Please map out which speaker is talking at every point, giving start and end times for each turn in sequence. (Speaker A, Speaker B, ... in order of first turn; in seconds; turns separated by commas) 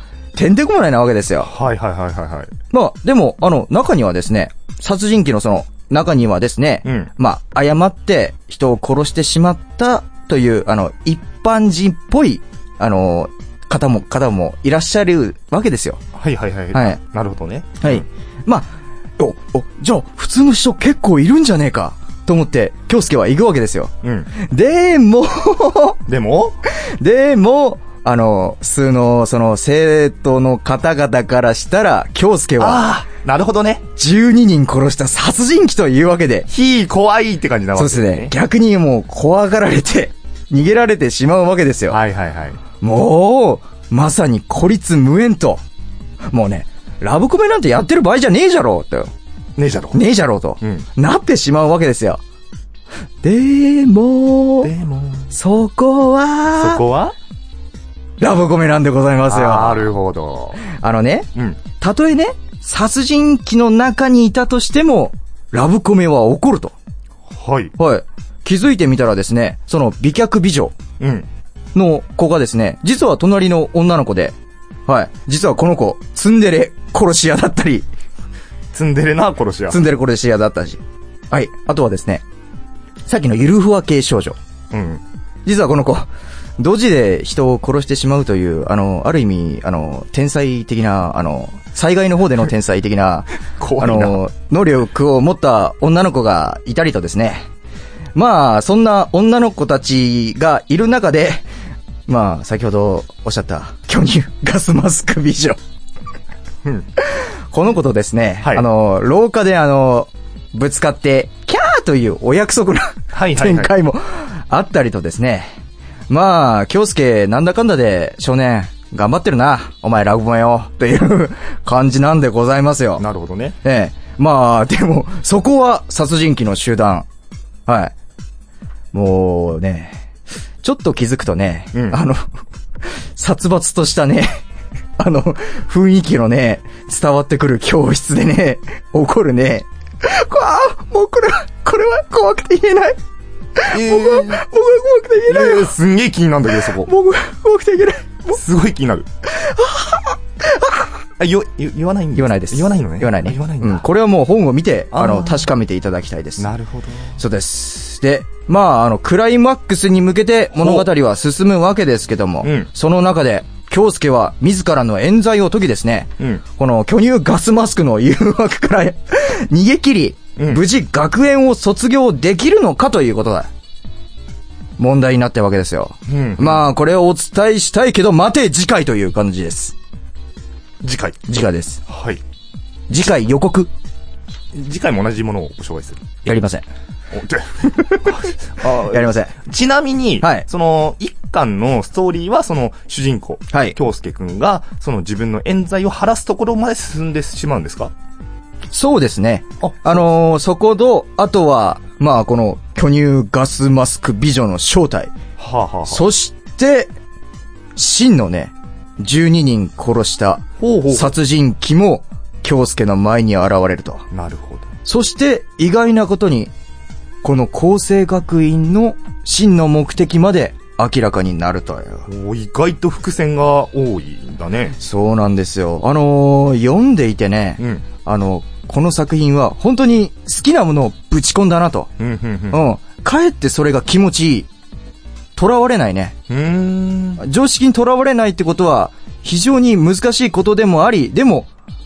Speaker A: 0.3-1.5, Speaker B: 1.4-2.5, Speaker A: 2.7-16.0, Speaker B: 6.8-7.1, Speaker B: 16.1-18.1, Speaker A: 16.7-17.0, Speaker A: 17.8-26.0, Speaker B: 24.0-24.3, Speaker B: 26.1-26.6, Speaker A: 26.7-32.9, Speaker B: 32.6-33.9, Speaker A: 34.0-36.5, Speaker B: 36.5-38.3, Speaker A: 37.8-42.0, Speaker B: 41.9-42.6, Speaker A: 42.8-45.6, Speaker A: 46.3-49.1, Speaker B: 49.6-50.0, Speaker A: 49.9-52.2, Speaker B: 50.6-50.9, Speaker A: 53.2-54.7, Speaker B: 54.6-55.3, Speaker A: 55.3-56.8, Speaker B: 56.6-57.1, Speaker A: 58.2-59.9, Speaker B: 59.3-60.6, Speaker A: 60.7-66.7, Speaker B: 61.4-61.6, Speaker B: 67.3-67.8, Speaker A: 67.8-70.7, Speaker B: 71.0-71.3, Speaker A: 71.8-74.3, Speaker A: 74.9-77.9, Speaker B: 78.7-79.8, Speaker A: 79.7-82.2, Speaker A: 83.1-84.4, Speaker B: 84.7-85.0, Speaker A: 85.5-97.5, Speaker B: 93.6-94.2, Speaker A: 98.2-101.5, Speaker A: 102.1-105.6, Speaker A: 107.2-115.5, Speaker B: 113.1-113.7, Speaker A: 116.1-123.0, Speaker B: 123.0-123.6, Speaker A: 123.6-127.1, Speaker A: 127.7-127.9, Speaker A: 128.9-130.0, Speaker A: 130.6-132.3, Speaker B: 131.7-132.0, Speaker A: 132.9-134.4, Speaker A: 135.0-143.0, Speaker A: 143.6-145.7, Speaker B: 143.7-144.4, Speaker B: 145.3-146.9, Speaker A: 146.8-148.4, Speaker B: 148.3-149.1, Speaker A: 149.3-150.9, Speaker B: 151.2-153.9, Speaker A: 152.2-156.5, Speaker B: 154.9-155.5, Speaker B: 156.4-157.2, Speaker A: 157.2-173.5, Speaker B: 160.6-160.9, Speaker B: 162.4-162.7, Speaker B: 170.4-170.6, Speaker A: 174.8-179.8, Speaker B: 176.1-176.7, Speaker B: 180.8-181.3, Speaker A: 181.3-181.8, Speaker B: 181.9-182.2, Speaker A: 182.9-183.7, Speaker B: 184.5-186.1, Speaker A: 186.2-186.7, Speaker B: 187.1-197.9, Speaker A: 188.6-189.4, Speaker A: 190.2-190.5, Speaker A: 193.5-193.8, Speaker A: 198.7-205.1, Speaker B: 199.6-200.1, Speaker B: 205.4-206.1, Speaker A: 205.9-206.9, Speaker A: 207.8-214.1, Speaker B: 210.6-211.1, Speaker B: 214.1-214.7, Speaker A: 214.8-216.5, Speaker A: 217.2-222.1, Speaker B: 222.1-224.8, Speaker A: 224.8-231.9, Speaker B: 227.6-227.8, Speaker B: 232.0-232.6, Speaker A: 232.5-234.5, Speaker A: 235.4-236.2, Speaker B: 236.3-237.2, Speaker A: 237.2-241.5